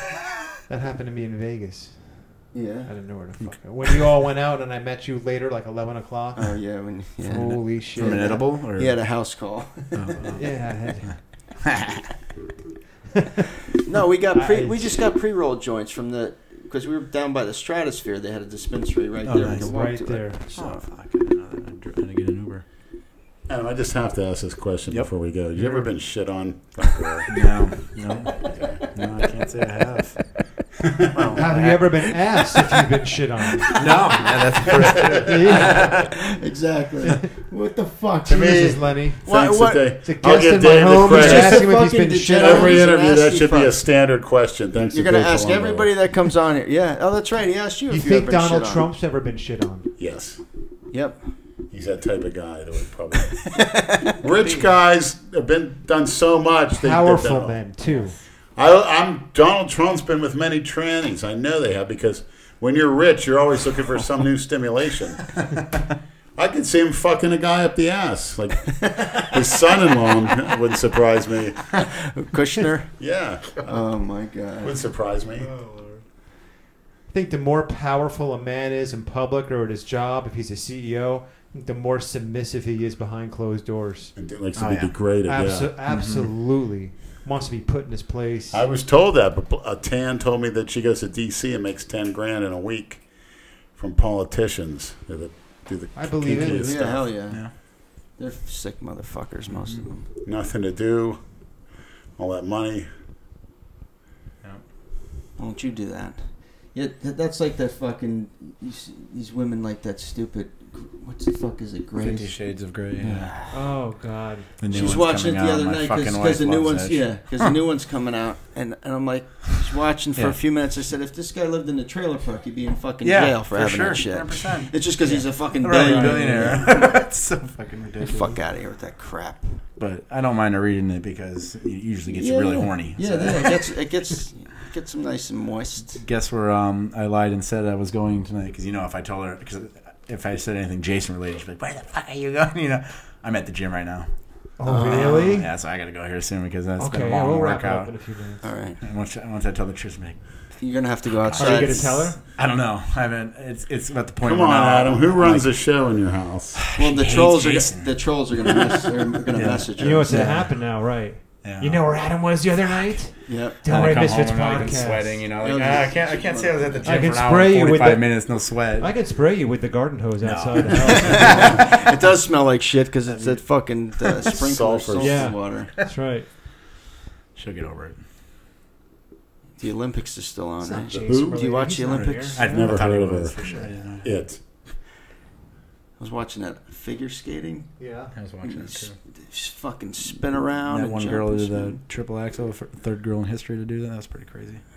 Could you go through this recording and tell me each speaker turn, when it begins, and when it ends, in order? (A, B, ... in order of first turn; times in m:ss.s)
0:00.7-0:06.6 A
0:02.5-0:02.9 B
0:06.4-0:10.4 B
0:07.2-0:08.4 A
0:07.3-0:09.0 C
0:09.9-0:11.1 C
0:10.3-0:11.2 A
0:11.8-0:12.0 C
0:13.8-0:20.8 B
0:14.3-0:15.0 A
0:19.2-0:19.7 C
0:19.6-0:20.4 A
0:20.5-0:22.6 C
0:23.5-0:27.3 D
0:27.3-0:30.3 C
0:28.4-0:28.8 D
0:30.8-0:31.4 D
0:31.1-0:32.0 C
0:31.3-0:33.9 A
0:33.7-0:36.1 C
0:35.2-0:36.1 A
0:35.6-0:39.8 B
0:38.2-0:41.7 D
0:38.4-0:39.2 A
0:40.0-0:42.8 A
0:41.1-0:43.8 B
0:42.4-0:45.9 D
0:44.9-0:48.9 B
0:47.9-0:49.9 A
0:50.0-0:50.4 D
0:50.9-0:51.2 B
0:51.7-0:53.5 D
0:53.4-0:54.1 B
0:54.0-0:57.6 D
0:54.2-0:54.7 C
0:56.8-0:58.2 A
0:58.6-1:05.4 D
1:06.4-1:11.7 D
1:08.9-1:09.2 B
1:11.7-1:12.9 B
1:13.0-1:13.8 D
1:13.6-1:14.8 B
1:14.6-1:15.5 D
1:15.4-1:16.0 C
1:17.1-1:24.1 A
1:24.2-1:25.7 D
1:24.6-1:24.9 C
1:25.3-1:28.6 A
1:25.9-1:26.3 C
1:28.5-1:33.0 D
1:33.8-1:37.0 D
1:35.9-1:36.7 A
1:36.3-1:40.1 B
1:39.5-1:39.8 C
1:40.2-1:41.2 D
1:42.2-1:42.9 D
1:45.4-1:53.5 B
1:52.0-1:53.3 C
1:53.5-1:54.5 A
1:54.6-1:57.5 C
1:54.7-2:07.0 B
2:03.0-2:08.4 C
2:05.8-2:06.5 A
2:08.0-2:09.6 B
2:09.8-2:13.8 C
2:12.1-2:16.0 B
2:15.9-2:24.1 C
2:24.6-2:25.5 A
2:24.6-2:25.3 B
2:24.6-2:28.0 C
2:26.8-2:28.4 A
2:28.4-2:28.8 B
2:28.8-2:30.2 C
2:30.6-2:32.0 B
2:31.2-2:35.5 C
2:31.4-2:32.2 A
2:34.2-2:36.6 D
2:36.6-2:37.9 C
2:36.7-2:40.3 B
2:39.3-2:40.6 C
2:39.8-2:45.2 A
2:41.4-2:41.8 C
2:43.3-2:43.6 B
2:43.6-2:48.9 C
2:45.4-2:47.1 B
2:46.8-2:51.7 A
2:50.2-2:51.6 C
2:50.8-2:55.7 B
2:54.3-2:55.3 D
2:55.0-2:56.3 A
2:57.4-2:58.0 C
2:59.6-3:02.4 B
3:00.6-3:02.8 A
3:01.0-3:01.4 D
3:02.3-3:04.1 C
3:02.4-3:04.4 D
3:03.4-3:03.7 A
3:06.0-3:07.7 B
3:07.8-3:08.1 A
3:08.1-3:09.0 C
3:08.4-3:11.8 B
3:10.7-3:14.6 C